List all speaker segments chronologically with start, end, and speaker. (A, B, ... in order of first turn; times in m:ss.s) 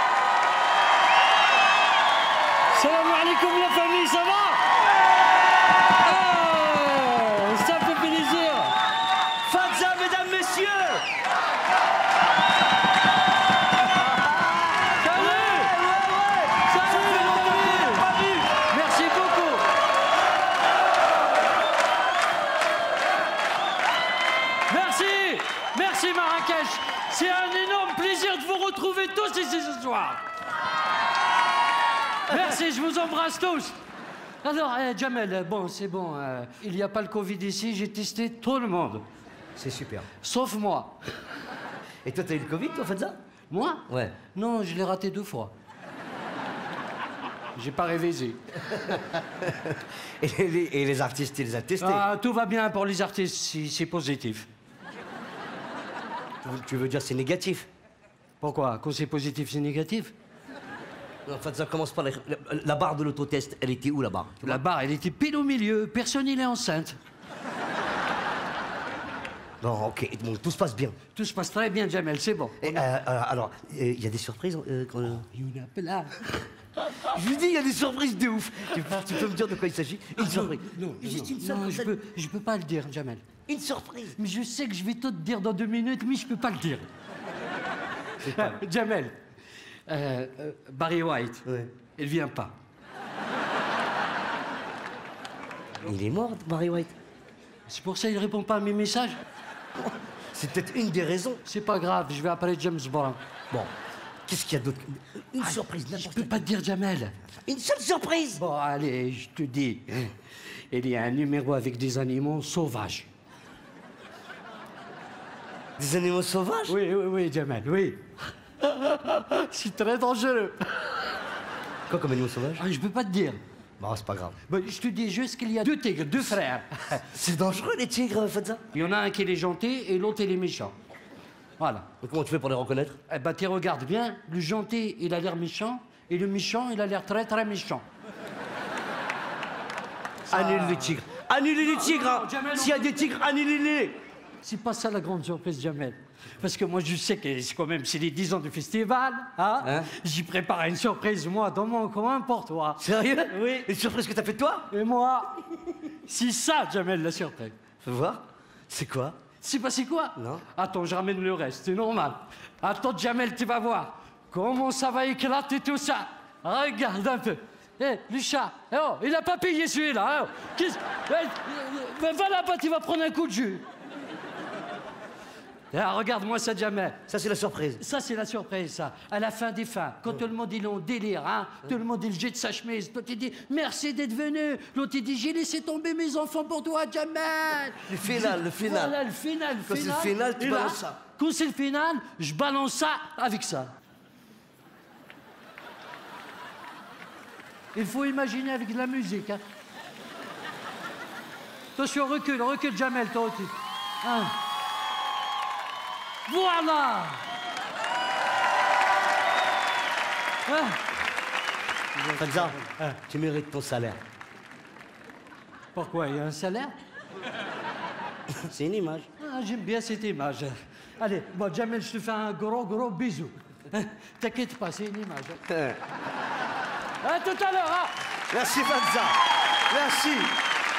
0:02.7-0:04.7 A
0:06.0-0:08.8 A
0:09.5-0:11.0 B
0:14.4-0:18.4 B
0:14.9-0:15.7 A
0:16.6-0:19.7 A
0:24.7-0:30.2 A
0:32.3-0:33.8 A
0:34.4-0:39.1 A
0:39.6-0:40.1 B
0:40.2-0:41.0 A
0:42.0-0:43.2 B
0:43.5-0:45.5 A
0:43.9-0:44.2 B
0:47.6-0:48.4 A
0:48.7-0:52.1 B
0:51.8-0:54.5 A
0:56.4-0:57.7 B
0:58.4-1:00.1 A
1:01.3-1:04.6 B
1:04.4-1:07.0 A
1:09.6-1:11.0 B
1:11.2-1:12.8 A
1:12.6-1:15.3 B
1:15.3-1:16.3 A
1:16.9-1:22.0 B
1:20.2-1:23.3 A
1:23.5-1:24.2 B
1:24.2-1:26.9 A
1:28.2-1:28.6 B
1:28.3-1:29.2 A
1:29.9-1:32.6 A
1:35.8-1:36.9 B
1:37.7-1:39.2 A
1:39.8-1:41.4 B
1:41.5-1:43.2 A
1:44.3-1:46.5 B
1:45.4-1:47.2 A
1:47.5-1:48.4 B
1:48.4-1:50.2 A
1:50.7-1:53.1 A
1:55.8-1:56.8 B
1:56.7-1:58.0 A
1:58.6-2:00.9 A
2:01.9-2:02.6 B
2:02.6-2:03.4 A
2:03.8-2:04.4 B
2:04.5-2:07.0 A
2:07.0-2:08.6 B
2:08.7-2:10.8 A
2:11.6-2:11.9 A
2:12.0-2:13.0 B
2:13.1-2:17.8 A
2:20.3-2:21.0 A
2:20.3-2:24.0 B
2:21.6-2:23.2 A
2:24.4-2:33.7 A
2:29.6-2:29.9 B
2:32.8-2:34.7 B
2:34.7-2:35.4 A
2:36.0-2:37.5 A
2:37.8-2:39.2 B
2:39.4-2:53.7 A
2:40.2-2:40.4 B
2:55.7-2:57.0 A
2:57.1-2:57.8 B
2:57.8-3:13.7 A
3:07.9-3:09.0 B
3:09.7-3:11.0 B
3:17.8-3:19.4 A
3:21.8-3:24.4 A
3:26.3-3:27.2 A
3:30.5-3:30.8 A
3:32.0-3:33.0 A
3:32.2-3:34.0 B
3:35.8-3:36.7 A
3:38.3-3:39.1 B
3:39.2-3:45.4 A
3:45.5-3:45.8 B
3:47.0-3:48.0 A
3:48.3-3:49.2 B
3:49.7-3:50.4 B